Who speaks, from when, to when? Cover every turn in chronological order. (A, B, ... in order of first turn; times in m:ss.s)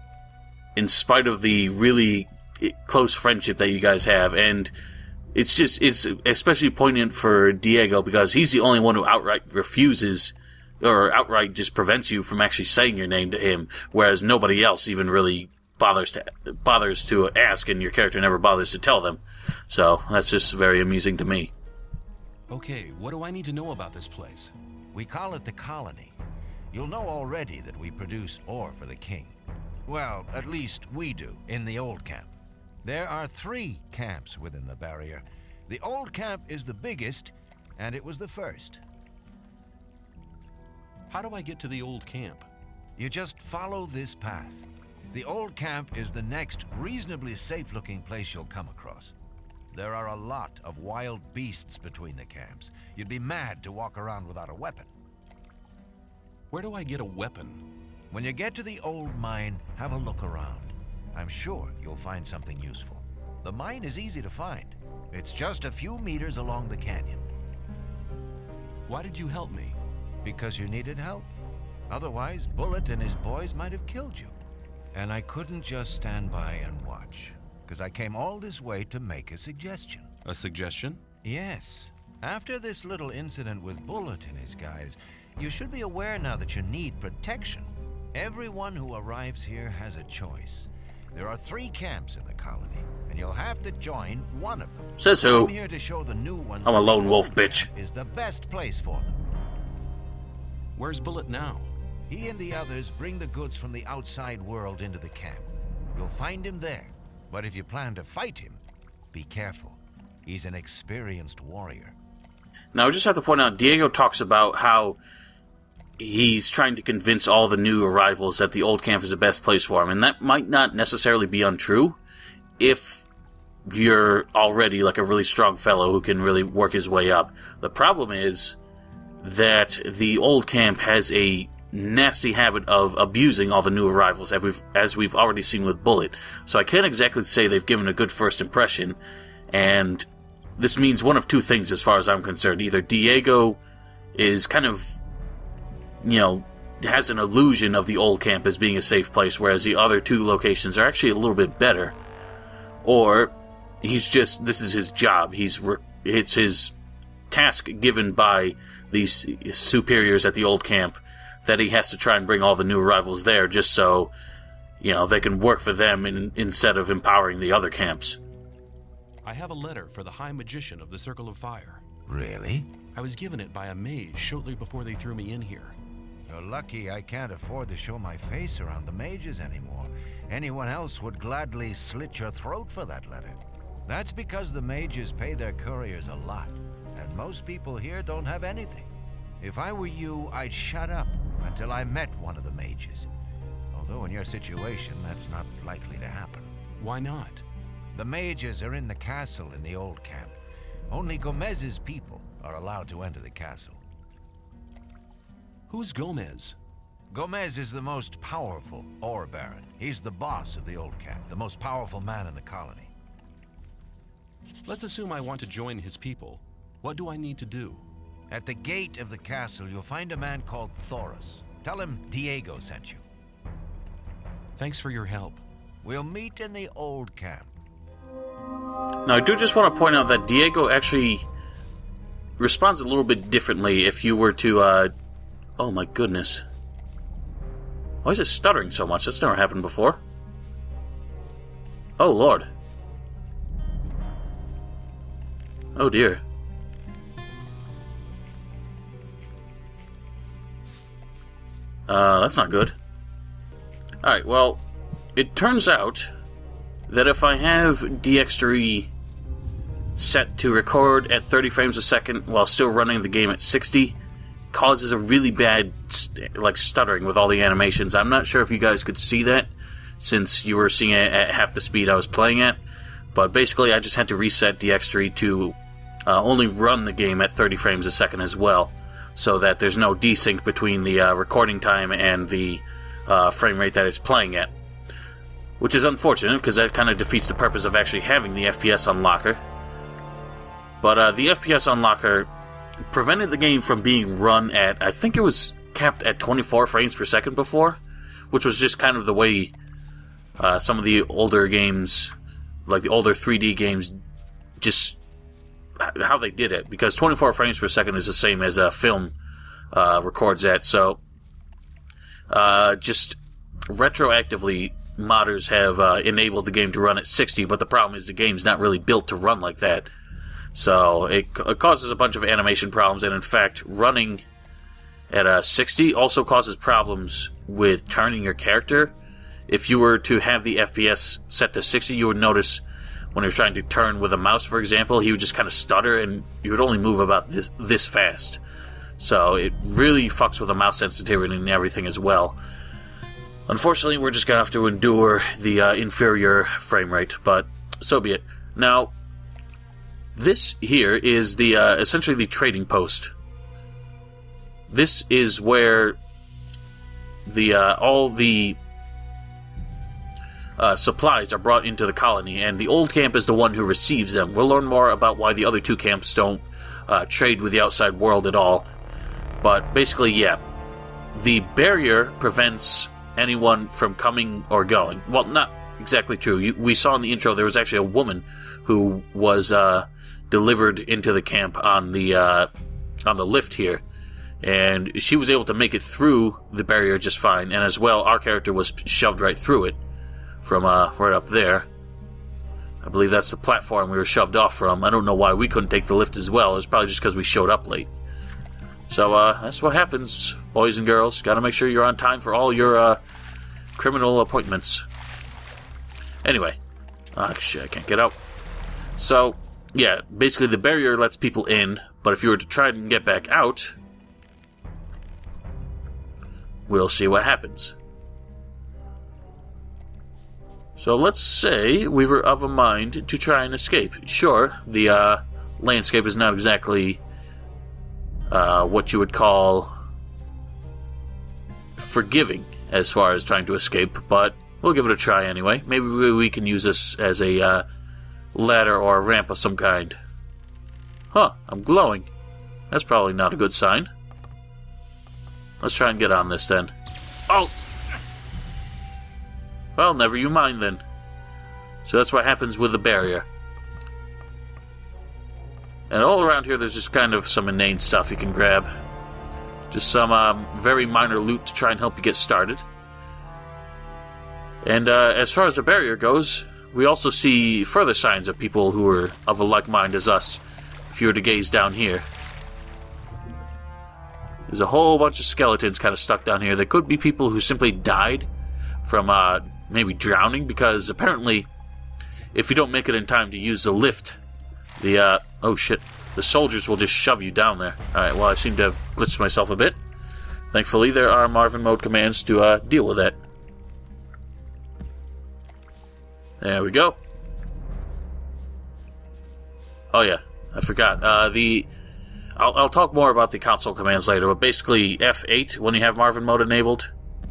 0:00.8-0:04.7 A
0:05.3-0:21.5 A
0:22.5-0:24.5 B
0:24.9-0:26.2 C
0:26.7-0:29.4 C
0:29.9-0:32.3 C
0:32.8-0:38.8 C
0:41.1-0:42.5 B
0:43.0-0:49.2 C
0:49.7-0:54.9 C
0:56.5-0:57.6 B
0:58.1-1:07.3 C
1:08.9-1:09.8 B
1:10.2-1:11.3 C
1:11.9-1:14.4 C
1:14.9-1:20.1 C
1:20.2-1:21.0 B
1:21.2-1:39.2 C
1:35.0-1:35.5 A
1:36.6-1:37.7 A
1:40.8-1:41.7 B
1:42.1-1:52.0 C
1:52.7-1:55.0 A
1:56.0-2:02.0 A
2:02.6-2:03.0 A
2:03.7-2:08.6 A
2:09.2-2:19.0 A
2:19.5-2:20.1 A
2:20.6-2:23.6 A
2:24.2-2:25.0 A
2:26.0-2:32.0 A
2:32.8-2:36.7 A
2:37.3-2:44.1 A
2:44.8-2:48.2 A
2:49.2-2:51.8 B
2:52.1-2:52.7 C
2:52.9-2:55.8 B
2:56.3-3:13.1 C
3:13.7-3:16.5 C
3:16.8-3:17.4 B
3:17.9-3:20.4 C
3:20.9-3:23.8 C
3:25.7-3:26.6 B
3:27.1-3:32.9 C
3:34.7-3:37.8 B
3:38.3-3:43.0 C
3:44.6-3:45.4 B
3:45.8-3:47.5 C
3:49.0-3:51.3 A
3:52.4-3:54.9 A
3:55.6-3:56.4 A
3:58.0-4:00.0 A
4:02.0-4:02.5 A
4:05.8-4:06.2 A
4:11.9-4:12.8 A
4:14.0-4:14.6 A
4:15.2-4:16.1 A
4:16.9-4:18.9 A
4:20.0-4:24.0 A
4:24.5-4:32.6 A
4:33.1-4:44.5 A
4:45.6-4:49.4 A
4:50.8-4:52.3 A
4:52.9-4:57.8 A
4:58.3-4:59.6 A
5:00.4-5:02.1 A
5:02.7-5:04.0 A
5:04.6-5:05.0 A
5:05.8-5:09.1 A
5:09.7-5:11.0 A
5:12.3-5:19.9 A
5:20.5-5:24.2 A
5:25.1-5:28.9 A
5:29.5-5:32.6 A
5:33.1-5:38.4 A
5:39.0-5:42.4 A
5:43.5-5:48.9 A
5:50.2-5:53.1 A
5:54.7-5:56.0 A
5:57.3-5:58.6 A
6:00.6-6:08.7 A
6:09.4-6:10.4 A
6:11.1-6:22.5 A
6:23.1-6:23.8 A
6:24.4-6:29.8 A
6:30.4-6:31.7 A
6:32.8-6:37.9 A
6:38.9-6:43.0 A
6:43.8-6:44.8 A
6:46.2-6:46.6 A
6:47.2-6:48.2 A
6:49.0-6:53.8 A
6:56.7-6:57.8 A
7:00.8-7:07.0 A
7:08.3-7:09.7 A
7:11.8-7:17.6 A
7:18.3-7:20.0 A
7:21.1-7:22.1 A
7:22.7-7:23.9 A
7:25.6-7:26.7 A
7:29.8-7:30.8 A
7:31.8-7:33.3 A
7:35.9-7:38.7 A
7:39.7-7:42.6 A
7:44.6-7:52.1 A
7:54.5-7:58.3 A
7:58.8-8:01.5 A
8:02.3-8:04.2 A
8:04.8-8:09.8 A
8:10.5-8:13.2 A
8:16.4-8:17.0 A
8:19.9-8:21.7 A
8:22.4-8:26.9 A